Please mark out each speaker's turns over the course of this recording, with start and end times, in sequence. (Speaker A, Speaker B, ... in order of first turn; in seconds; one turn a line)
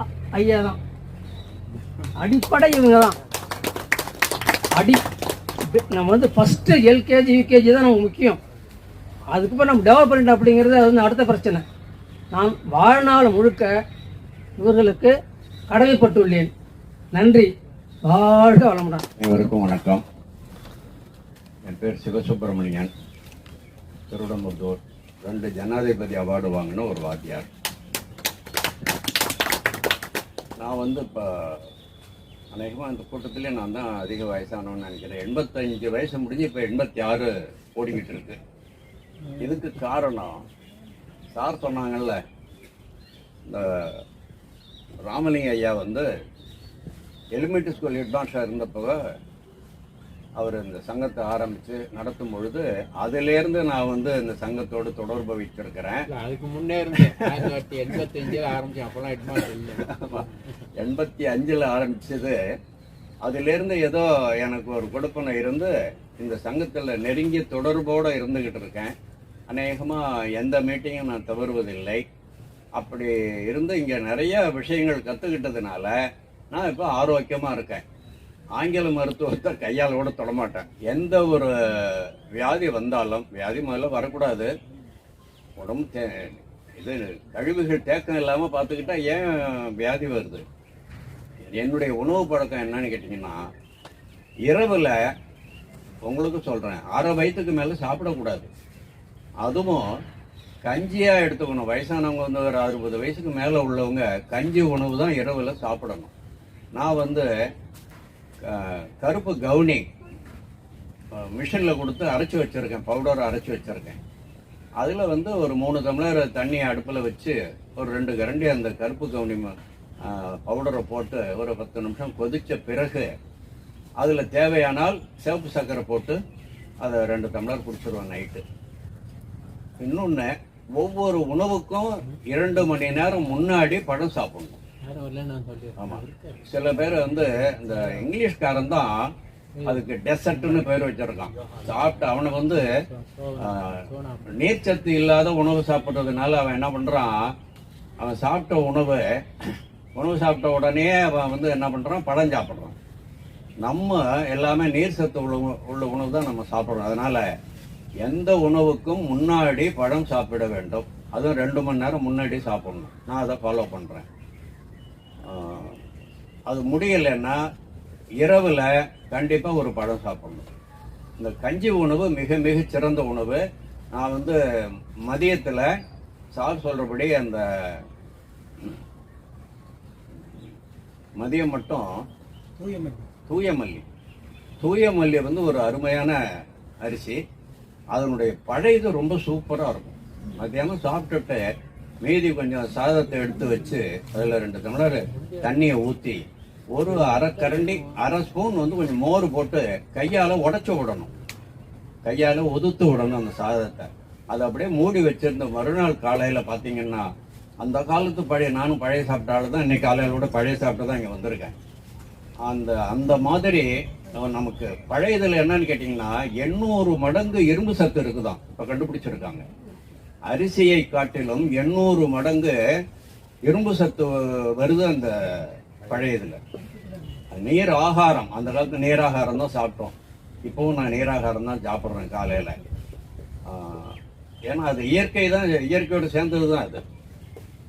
Speaker A: 0.3-0.8
Speaker A: 2.2-3.1
Speaker A: 5.7-8.4
Speaker A: 9.3-11.6
Speaker A: 12.3-13.7
Speaker A: 14.6-15.1
Speaker A: 15.7-16.5
Speaker A: 17.1-17.5
Speaker A: 18.1-19.0
Speaker B: 19.2-20.0
Speaker B: 21.6-22.9
Speaker B: 24.1-27.5
Speaker B: 30.6-31.7
Speaker B: 32.5-38.4
Speaker B: 39.4-40.4
Speaker B: 41.3-42.2
Speaker B: 43.5-44.0
Speaker B: 45.1-46.1
Speaker B: 47.3-49.0
Speaker B: 50.4-56.1
Speaker C: 56.1-60.4
Speaker B: 57.2-57.5
Speaker B: 59.8-62.4
Speaker B: 63.2-68.9
Speaker B: 69.5-72.0
Speaker B: 72.8-75.9
Speaker B: 76.5-77.8
Speaker B: 78.6-84.5
Speaker B: 85.6-90.4
Speaker B: 91.5-93.5
Speaker B: 94.5-94.9
Speaker B: 96.0-98.5
Speaker B: 99.4-99.8
Speaker B: 100.7-106.1
Speaker B: 106.8-107.2
Speaker B: 108.4-109.8
Speaker B: 111.2-114.0
Speaker B: 114.8-119.5
Speaker B: 120.0-123.1
Speaker B: 124.0-126.2
Speaker B: 126.8-128.4
Speaker B: 129.8-134.6
Speaker C: 134.8-138.1
Speaker B: 135.8-139.1
Speaker C: 139.6-140.7
Speaker B: 139.6-142.7
Speaker C: 141.4-144.4
Speaker B: 143.4-147.3
Speaker B: 148.0-149.0
Speaker B: 149.9-152.8
Speaker B: 153.6-157.2
Speaker B: 158.0-164.1
Speaker B: 165.3-165.8
Speaker B: 166.5-167.4
Speaker B: 168.2-170.5
Speaker B: 171.2-173.4
Speaker B: 173.9-174.4
Speaker B: 175.1-175.7
Speaker B: 176.3-177.9
Speaker B: 181.2-182.1
Speaker C: 182.6-183.0
Speaker B: 183.3-183.8
Speaker B: 184.6-186.2
Speaker B: 186.8-187.2
Speaker B: 187.9-191.4
Speaker B: 192.0-201.1
Speaker C: 195.1-195.6
Speaker C: 196.8-198.1
Speaker B: 202.0-207.1
Speaker B: 207.6-211.5
Speaker B: 212.4-219.4
Speaker B: 220.3-222.6
Speaker B: 223.5-226.4
Speaker B: 227.3-232.6
Speaker B: 233.5-234.0
Speaker B: 234.5-236.8